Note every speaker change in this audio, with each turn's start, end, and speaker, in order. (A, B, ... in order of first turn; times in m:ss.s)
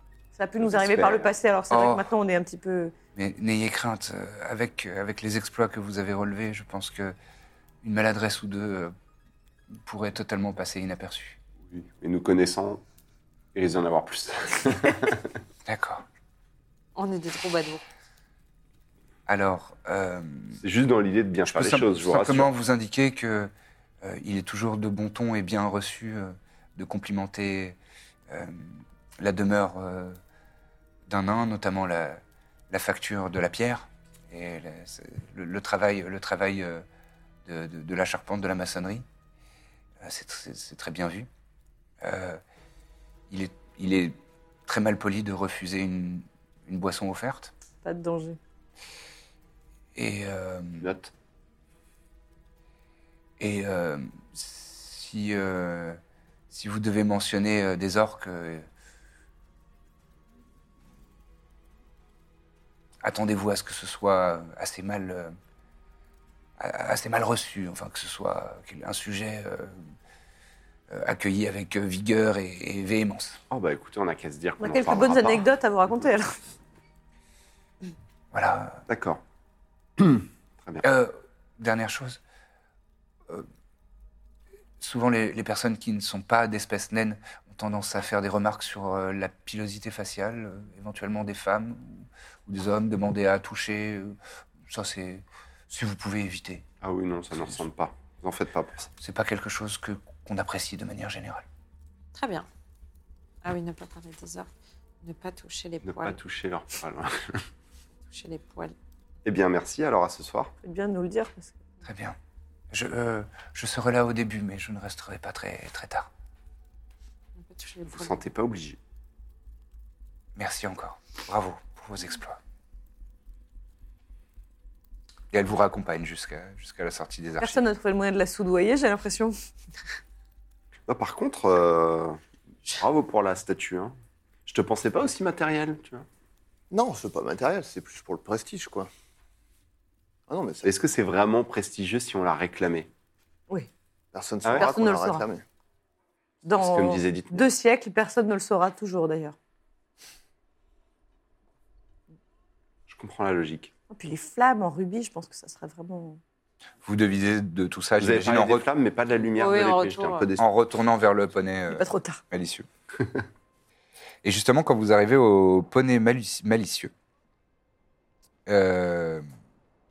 0:00.4-0:02.9 A
0:00.6-0:01.3 B
0:01.7-0:02.1 C
0:03.2-0:07.2 C
0:07.8-0:08.9 C
0:09.8-0:11.4 C
0:11.7-0:12.8 B
0:13.6-0:15.3 B
0:15.7-0:16.0 C
0:17.0-0:17.8 D
0:19.3-0:20.6 C
0:20.6-0:22.5 B
0:21.5-0:27.8 C
0:28.3-0:30.2 C
0:31.1-0:36.8 C
0:37.5-0:39.0 C
0:40.0-0:41.3 C
0:42.0-0:42.4 C
0:43.3-0:47.5 C
0:47.8-0:48.4 A
0:50.0-0:50.9 C
0:50.8-0:51.1 B
0:53.4-0:56.0 C
0:56.5-0:58.7 C
1:03.0-1:05.4 C
1:06.6-1:09.8 C
1:10.9-1:13.4 C
1:13.5-1:15.5 B
1:14.6-1:16.4 A
1:18.3-1:18.8 C
1:18.9-1:19.2 B
1:20.0-1:20.8 B
1:20.8-1:22.2 C
1:24.8-1:34.2 C
1:34.7-1:36.6 C
1:36.8-1:38.8 B
1:39.0-1:41.5 C
1:42.2-1:42.5 D
1:43.4-1:44.5 D
1:45.0-1:46.2 D
1:45.8-1:47.5 B
1:48.1-1:48.8 D
1:49.2-1:50.5 B
1:50.6-1:51.6 A
1:51.8-1:52.2 C
1:52.7-1:56.1 C
1:57.4-1:58.2 D
1:57.9-1:58.8 B
2:00.4-2:02.4 C
2:05.3-2:07.6 C
2:07.4-2:09.3 A
2:10.9-2:14.0 B
2:14.5-2:16.1 B
2:16.7-2:18.9 E
2:20.3-2:20.7 E
2:20.6-2:22.9 B
2:24.1-2:25.4 E
2:24.4-2:24.7 B
2:24.6-2:25.2 A
2:26.4-2:29.4 A
2:26.6-2:27.5 B
2:32.9-2:33.7 B
2:33.9-2:36.2 A
2:36.8-2:38.7 C
2:38.0-2:40.5 B
2:39.4-2:40.3 D
2:40.4-2:42.7 C
2:41.7-2:42.2 A
2:44.2-2:46.9 C
2:48.5-2:49.2 C